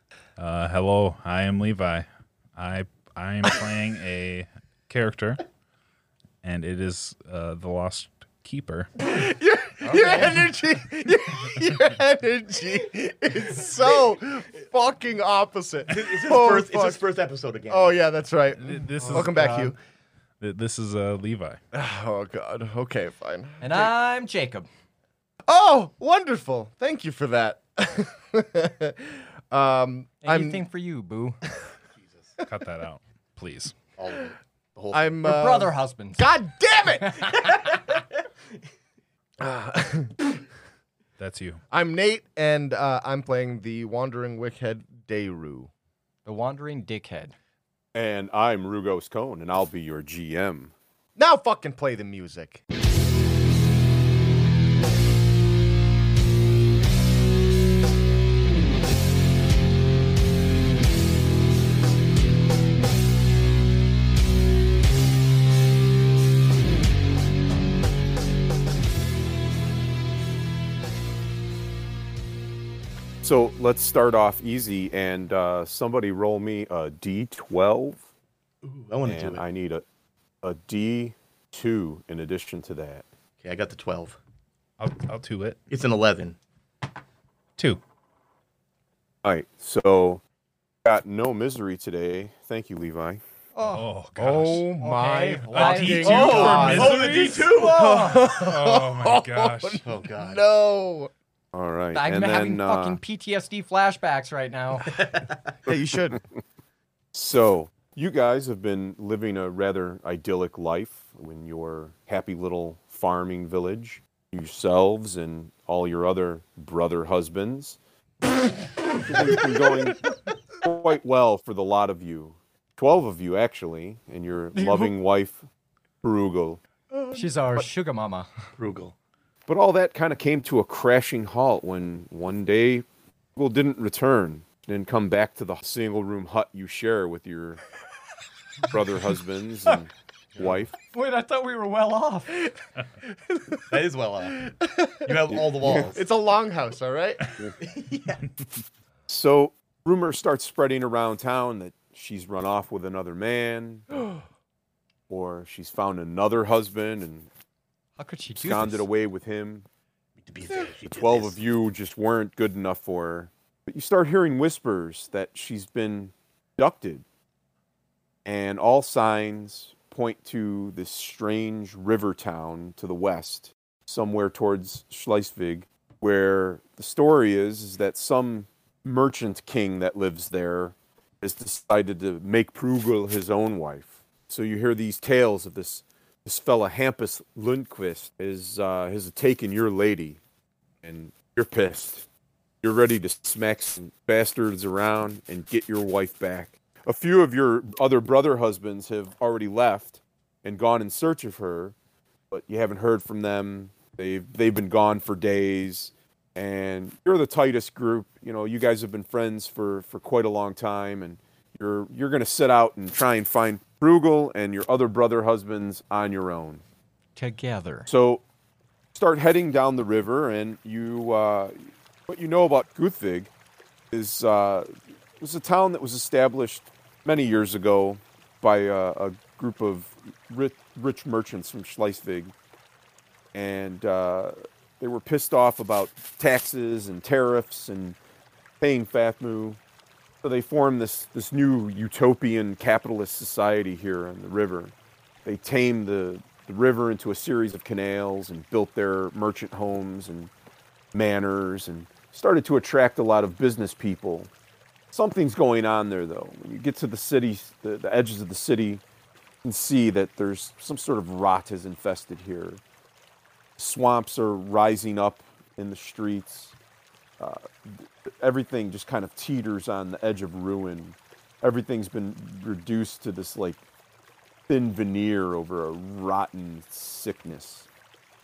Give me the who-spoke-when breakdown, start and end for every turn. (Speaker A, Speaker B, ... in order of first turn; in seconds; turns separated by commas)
Speaker A: 0.4-5.4, Speaker A: 6.4-8.9, Speaker B: 9.0-17.0, Speaker C: 9.8-10.2, Speaker C: 15.9-18.0, Speaker B: 17.7-19.8, Speaker A: 18.7-19.7, Speaker D: 19.0-19.7, Speaker A: 20.4-21.6, Speaker B: 21.7-23.9, Speaker D: 23.6-24.7, Speaker B: 25.5-30.6, Speaker D: 30.2-31.4, Speaker A: 32.5-33.8, Speaker C: 34.0-35.2, Speaker B: 34.9-37.7, Speaker D: 35.2-36.3, Speaker C: 37.4-37.8, Speaker B: 39.4-40.4, Speaker A: 41.2-41.6, Speaker B: 41.7-45.7, Speaker D: 46.2-47.3, Speaker E: 47.9-50.7, Speaker B: 51.2-52.6, Speaker E: 73.2-78.0, Speaker C: 78.6-79.4, Speaker E: 79.0-79.8, Speaker E: 80.4-83.1, Speaker C: 83.4-84.2, Speaker A: 84.8-85.6, Speaker C: 85.7-86.4, Speaker E: 89.2-90.2, Speaker E: 90.8-93.2, Speaker D: 93.6-93.9, Speaker A: 93.6-94.7, Speaker B: 94.2-97.1, Speaker D: 94.8-98.2, Speaker A: 95.5-99.8, Speaker C: 96.1-97.8, Speaker B: 97.6-101.1, Speaker C: 99.8-100.4, Speaker E: 101.5-103.0, Speaker D: 101.9-104.9, Speaker B: 105.6-106.2, Speaker E: 107.1-117.8, Speaker E: 119.0-120.0, Speaker E: 120.6-125.4, Speaker D: 124.6-124.9, Speaker E: 126.0-126.6, Speaker B: 126.9-127.7, Speaker D: 127.2-128.3, Speaker C: 128.6-128.9, Speaker E: 129.5-132.8, Speaker E: 133.3-137.6, Speaker E: 138.7-140.7, Speaker D: 140.9-142.3, Speaker C: 143.7-146.0, Speaker B: 144.6-147.4, Speaker E: 145.6-145.9, Speaker C: 147.7-148.2, Speaker E: 149.1-154.0, Speaker E: 155.1-157.3, Speaker D: 158.0-158.9, Speaker E: 158.4-159.7, Speaker C: 160.2-161.3, Speaker E: 160.9-167.0, Speaker E: 168.2-190.2, Speaker E: 190.8-192.1, Speaker E: 192.6-201.8, Speaker E: 202.3-216.6, Speaker D: 217.2-217.9, Speaker E: 217.9-218.2, Speaker E: 218.9-223.3, Speaker E: 223.9-232.3, Speaker E: 233.3-237.9, Speaker E: 238.6-239.6, Speaker E: 240.2-244.7, Speaker E: 245.2-250.3, Speaker E: 250.9-254.3, Speaker E: 254.9-258.8, Speaker E: 259.4-262.6, Speaker E: 263.6-266.6, Speaker E: 267.2-273.6, Speaker E: 274.5-277.7